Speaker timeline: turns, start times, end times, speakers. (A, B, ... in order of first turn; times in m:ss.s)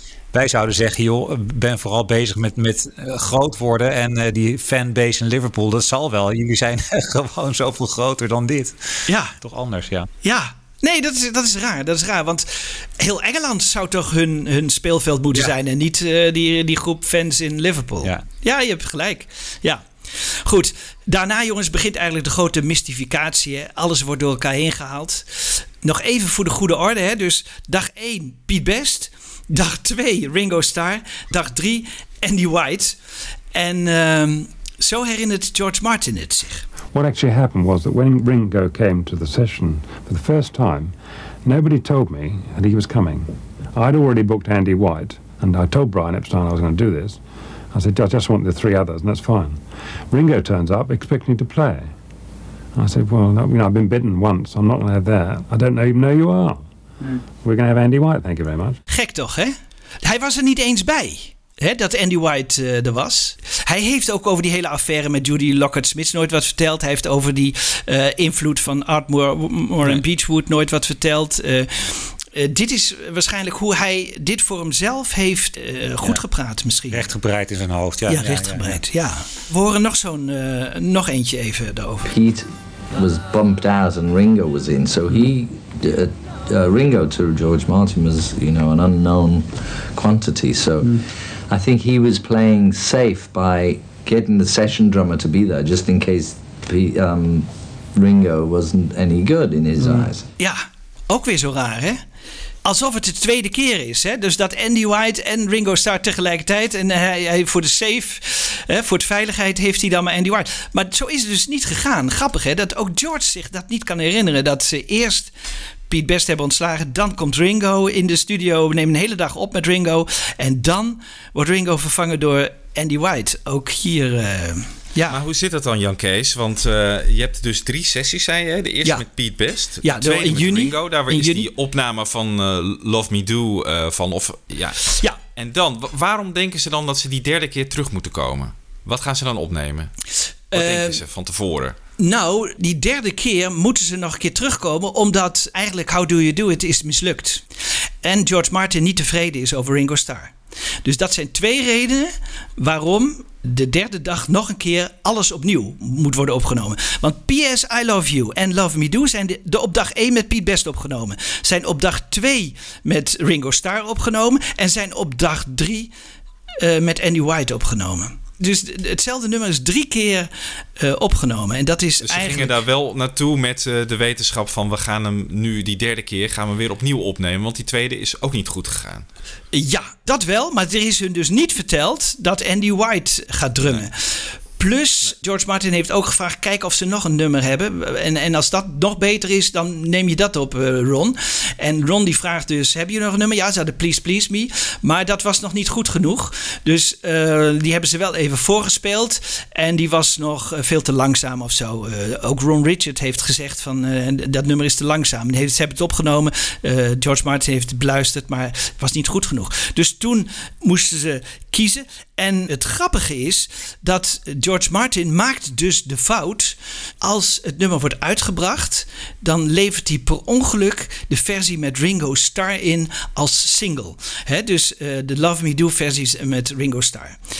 0:00.3-0:10.1 A
0:09.1-0:09.3 B
0:10.2-0:19.8 B
0:20.4-0:33.0 B
0:33.5-0:36.6 B
0:36.9-0:47.2 C
0:47.7-0:51.9 C
0:52.8-0:56.6 C
0:57.4-0:58.8 C
0:58.9-1:17.0 B
1:16.9-1:18.8 A
1:18.1-1:22.1 B
1:22.1-1:40.2 D
1:40.4-1:42.0 B
1:42.6-1:55.3 B
1:55.9-2:05.2 B
2:05.1-2:19.9 E
2:09.8-2:11.5 B
2:20.5-2:21.0 B
2:20.5-2:21.8 E
2:22.0-2:27.4 B
2:28.0-2:30.3 B
2:30.8-2:45.9 B
2:46.6-2:52.6 B
2:52.0-2:59.0 E
2:59.5-3:47.2 B